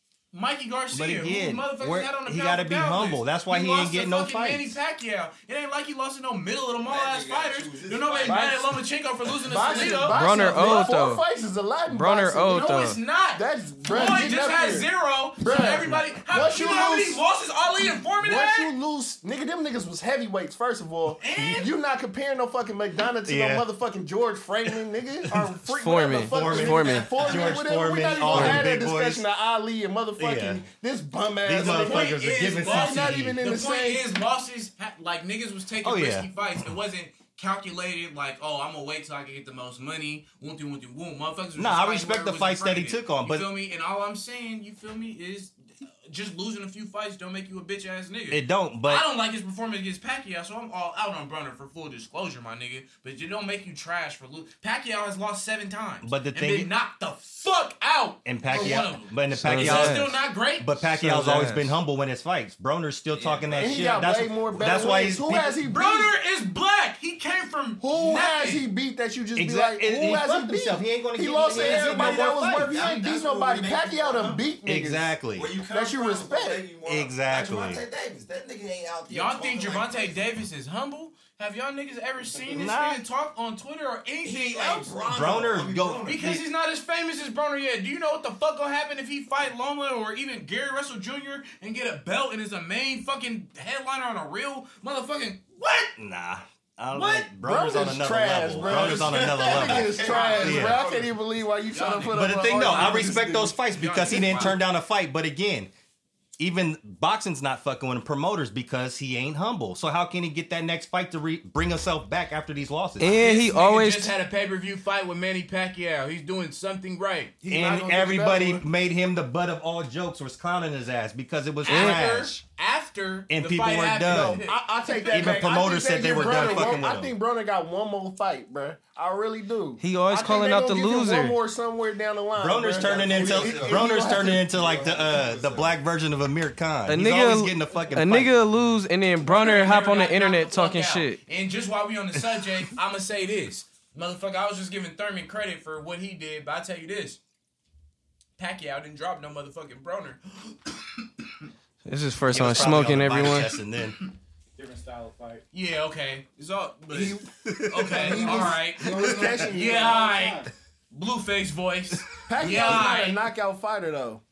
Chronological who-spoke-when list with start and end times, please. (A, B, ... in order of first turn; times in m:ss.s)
0:00.3-0:11.0 A
0:00.9-0:04.8 B
0:06.8-0:08.6 C
0:08.2-0:08.7 D
0:09.3-0:10.1 C
0:09.5-0:12.7 D
0:10.1-0:11.2 E
0:11.9-0:13.0 E
0:12.5-0:18.7 A
0:13.4-0:17.2 D
0:18.2-0:34.1 D
0:21.2-0:21.7 A
0:21.3-0:21.7 B
0:23.2-0:23.6 B
0:25.7-0:27.1 E
0:26.2-0:29.2 B
0:27.2-0:27.5 C
0:28.3-0:28.7 E
0:30.2-0:30.6 B
0:31.4-0:33.4 B
0:31.6-1:01.4 A
0:35.8-0:36.3 B
0:41.6-0:43.5 B
0:48.3-0:49.1 B
0:56.0-0:56.7 B
0:58.2-1:05.5 B
0:58.5-0:58.8 D
0:59.4-1:00.1 E
1:01.0-1:01.8 E
1:03.1-1:04.0 A
1:03.6-1:06.1 D
1:05.6-1:08.7 A
1:07.8-1:16.7 D
1:09.4-1:12.8 B
1:11.4-1:14.6 C
1:14.7-1:15.5 B
1:15.3-1:20.3 C
1:16.8-1:17.8 B
1:19.1-1:25.0 A
1:22.5-1:23.0 B
1:24.2-1:26.3 C
1:25.1-1:26.4 B
1:26.1-1:35.9 A
1:36.0-1:40.8 B
1:36.9-1:44.6 D
1:38.6-1:40.9 A
1:38.8-1:41.1 C
1:41.7-1:44.6 A
1:42.1-1:45.7 B
1:46.4-1:53.2 B
1:53.0-1:54.2 E
1:53.0-1:57.4 A
1:57.4-1:58.6 D
1:57.5-2:02.4 B
2:01.6-2:06.8 A
2:01.7-2:02.0 E
2:03.3-2:04.4 B
2:04.1-2:14.5 D
2:05.1-2:07.1 B
2:09.8-2:11.4 E
2:12.4-2:18.4 B
2:12.8-2:15.8 C
2:16.9-2:21.2 E
2:19.2-2:27.2 A
2:28.4-2:31.5 A
2:31.8-2:33.5 E
2:32.3-2:34.0 B
2:34.6-2:35.4 F
2:35.5-2:43.3 A
2:36.9-2:40.1 D
2:37.5-2:37.8 B
2:38.1-2:38.6 F
2:39.2-2:40.5 F
2:42.3-2:44.2 D
2:42.5-2:42.8 B